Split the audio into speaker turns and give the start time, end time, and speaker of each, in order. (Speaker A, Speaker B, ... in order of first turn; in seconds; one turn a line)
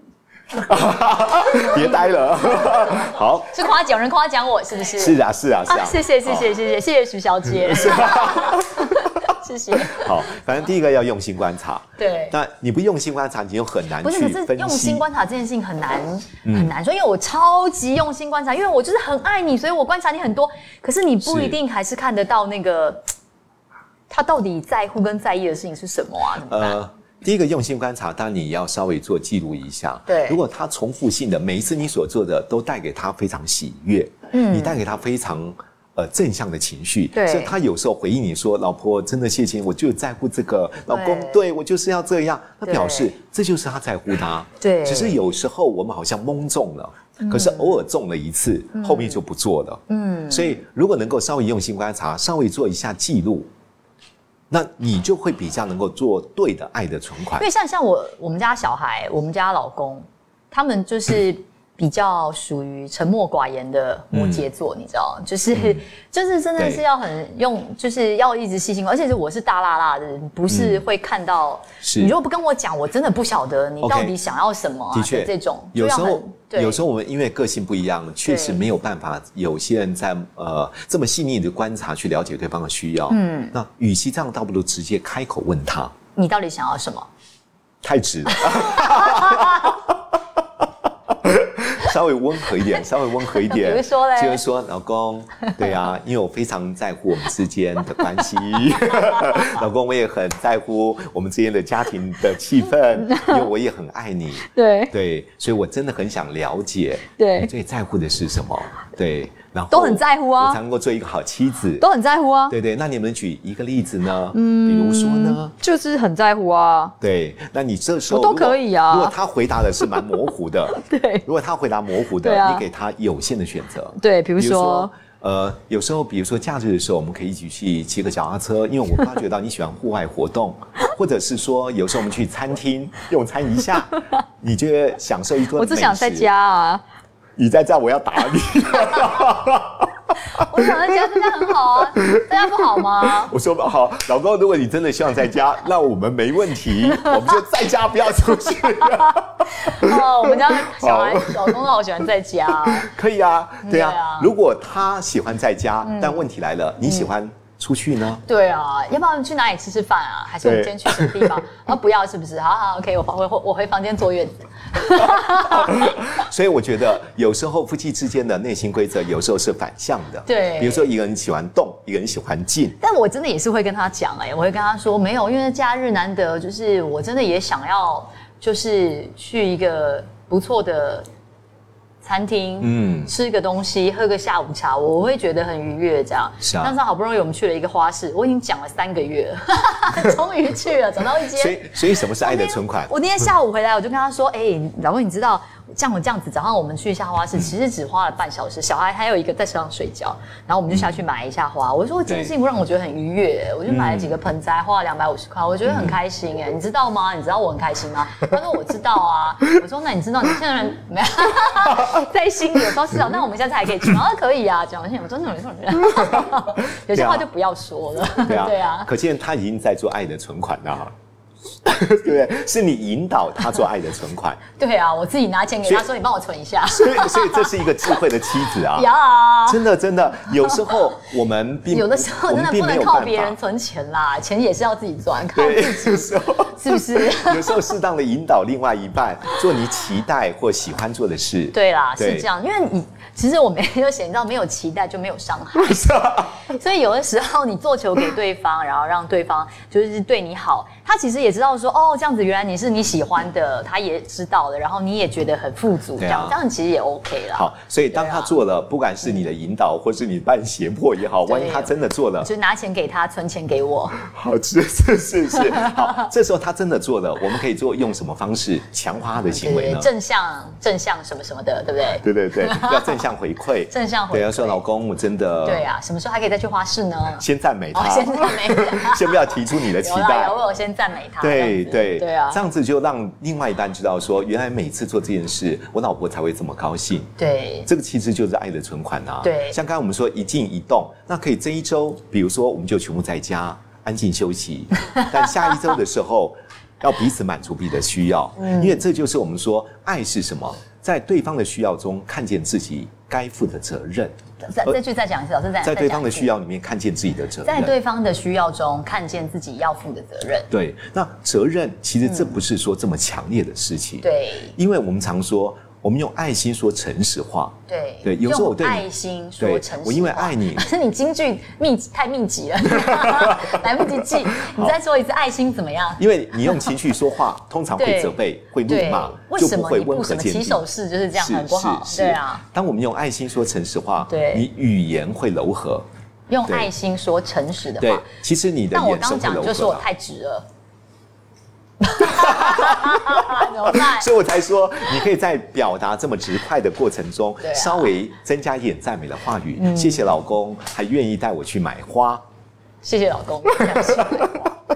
Speaker A: 0.5-3.5
Speaker B: 1.5-10.2
Speaker A: 4.9-6.6
Speaker A: 7.6-9.2
Speaker A: 9.8-15.0
Speaker B: 12.0-12.4
Speaker B: 14.0-23.1
Speaker A: 16.4-16.7
Speaker A: 21.2-21.6
Speaker B: 24.1-26.8
Speaker A: 26.4-53.5
Speaker B: 30.1-30.4
Speaker B: 34.3-34.8
Speaker B: 37.1-37.5
Speaker B: 40.9-41.4
Speaker B: 42.6-43.1
Speaker B: 44.6-45.2
Speaker B: 47.2-47.8
Speaker B: 48.7-49.2
Speaker B: 49.9-50.6
Speaker A: 54.5-57.5
Speaker B: 57.4-76.8
Speaker A: 64.1-64.5
Speaker A: 65.5-65.8
Speaker A: 66.6-66.8
Speaker A: 70.5-70.8
Speaker A: 71.8-72.1
Speaker A: 73.8-74.1
Speaker A: 74.9-85.9
Speaker B: 78.2-78.6
Speaker B: 83.1-83.5
Speaker B: 86.2-87.1
Speaker A: 87.8-89.9
Speaker B: 88.5-89.7
Speaker A: 90.6-111.8
Speaker B: 93.4-94.4
Speaker B: 103.0-103.5
Speaker B: 104.5-104.9
Speaker B: 107.2-107.5
Speaker B: 109.7-110.6
Speaker B: 111.8-112.5
Speaker A: 112.5-115.5
Speaker B: 114.3-116.9
Speaker A: 117.0-136.3
Speaker B: 118.1-119.2
Speaker B: 120.7-121.2
Speaker B: 122.2-122.6
Speaker B: 124.0-124.9
Speaker B: 135.5-136.8
Speaker A: 137.4-141.0
Speaker B: 140.3-143.3
Speaker A: 143.0-151.7
Speaker B: 148.9-152.9
Speaker A: 152.5-158.2
Speaker B: 153.6-154.3
Speaker B: 155.8-156.2
Speaker B: 156.8-157.1
Speaker B: 158.2-166.0
Speaker A: 160.4-161.4
Speaker A: 165.0-172.8
Speaker B: 170.2-170.9
Speaker B: 172.8-181.1
Speaker B: 182.0-218.9
Speaker A: 182.6-183.1
Speaker A: 186.4-186.7
Speaker A: 191.3-192.9
Speaker A: 200.7-201.0
Speaker A: 202.1-202.3
Speaker A: 203.7-204.2
Speaker A: 205.7-206.0
Speaker A: 211.7-212.0
Speaker A: 216.0-216.3
Speaker A: 216.9-217.2
Speaker A: 218.2-220.9
Speaker A: 221.6-224.4
Speaker B: 224.6-227.6
Speaker A: 226.7-228.9
Speaker B: 228.7-229.6
Speaker A: 229.4-233.4
Speaker B: 231.7-237.7
Speaker A: 235.3-242.3
Speaker B: 241.5-258.4
Speaker A: 245.7-246.3
Speaker A: 256.0-256.4
Speaker A: 257.3-262.3
Speaker B: 261.2-264.0
Speaker A: 264.0-269.9
Speaker B: 265.6-266.0
Speaker B: 269.3-273.0
Speaker A: 272.0-275.6
Speaker B: 273.7-274.6
Speaker B: 275.4-282.4
Speaker A: 277.2-280.4
Speaker A: 281.2-287.1
Speaker B: 287.2-287.7
Speaker A: 287.6-304.8
Speaker B: 289.2-289.6
Speaker B: 298.4-298.8
Speaker B: 304.4-306.3
Speaker A: 305.6-307.7
Speaker B: 307.4-310.5
Speaker A: 310.5-318.9
Speaker B: 312.0-312.3
Speaker B: 314.0-314.5
Speaker B: 317.7-326.7
Speaker A: 319.4-320.7
Speaker A: 322.8-324.8
Speaker A: 326.0-330.6
Speaker B: 327.8-332.4
Speaker A: 331.1-335.9
Speaker B: 334.1-334.5
Speaker B: 336.3-338.1
Speaker A: 337.8-339.9
Speaker B: 338.7-340.4
Speaker B: 341.8-344.1
Speaker A: 342.0-352.2
Speaker B: 347.4-347.9
Speaker B: 349.6-350.1
Speaker B: 352.8-354.5
Speaker A: 353.6-354.4